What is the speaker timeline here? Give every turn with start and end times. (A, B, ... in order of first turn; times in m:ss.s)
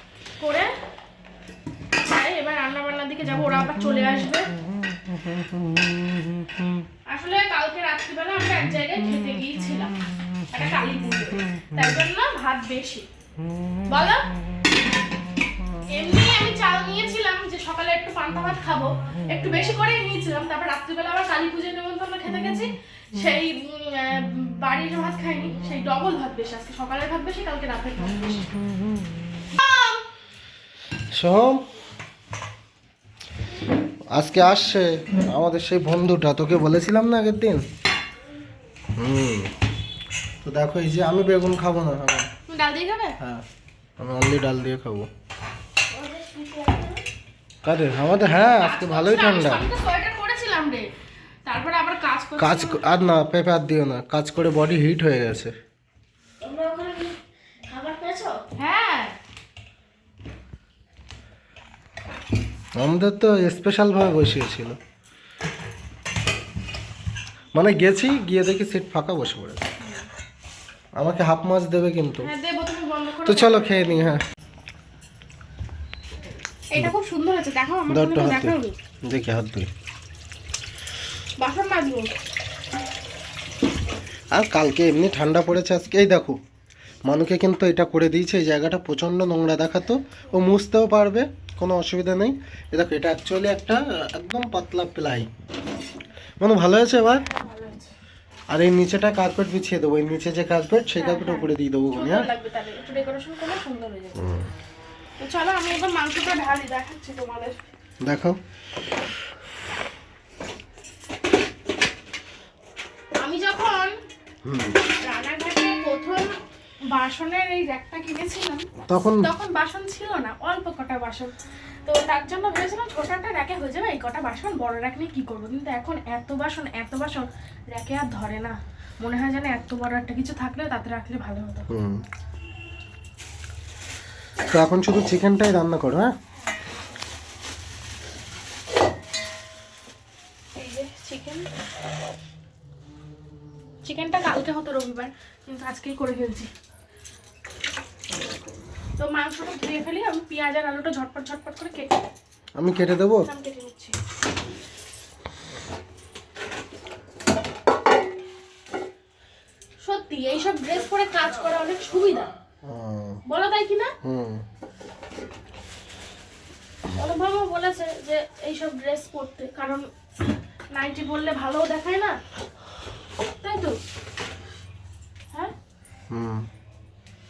0:00.4-0:00.7 A
0:02.0-0:04.5 A
0:05.1-0:06.7 B
0:07.1-0:09.9 A
0:10.5-0:13.0 A
0:13.9-0:14.3 A
0:15.9-0:28.5 A
0:29.6-0:30.0 A
0:31.1-0:31.6 B
0:34.1-0:37.6 B
0:39.0-0:39.5 B
0:40.4-0:42.3 B
0:42.5-0:43.1 A
0:44.0-0:45.1 B
0:45.9-0:47.0 A
0:47.6-0:49.7 B
0:48.6-0:50.8 A
0:51.4-0:52.8 A
0:52.4-0:55.5 B
0:56.4-0:57.1 A
0:57.8-0:59.1 A
1:02.8-1:04.8 B
1:07.5-1:09.7 B
1:11.0-1:12.3 B
1:12.2-1:14.1 A
1:13.2-1:14.2 B
1:16.7-1:18.7 A
1:17.9-1:19.7 B
1:21.4-1:22.1 A
1:24.3-1:26.4 B
1:27.0-1:35.3 B
1:36.4-1:37.2 B
1:37.2-1:37.9 A
1:38.5-1:42.3 B
1:41.0-1:44.2 A
1:44.1-1:44.5 B
1:45.2-1:47.5 A
1:48.0-1:48.4 B
1:53.2-1:53.9 A
1:54.4-1:54.8 B
1:55.0-1:56.4 A
1:56.9-1:58.6 A
1:58.9-1:59.3 B
1:59.2-2:01.3 A
2:01.8-2:11.7 A
2:11.7-2:12.0 B
2:14.5-2:16.1 B
2:20.6-2:21.4 A
2:23.8-2:26.5 A
2:29.0-2:31.9 A
2:32.6-2:33.3 B
2:33.3-2:33.9 A
2:39.8-2:42.3 A
2:42.6-2:43.2 B
2:43.3-2:43.9 A
2:44.0-2:44.4 B
2:46.9-2:49.8 A
2:50.7-2:52.1 A
2:53.4-2:53.7 A
2:56.1-2:56.5 B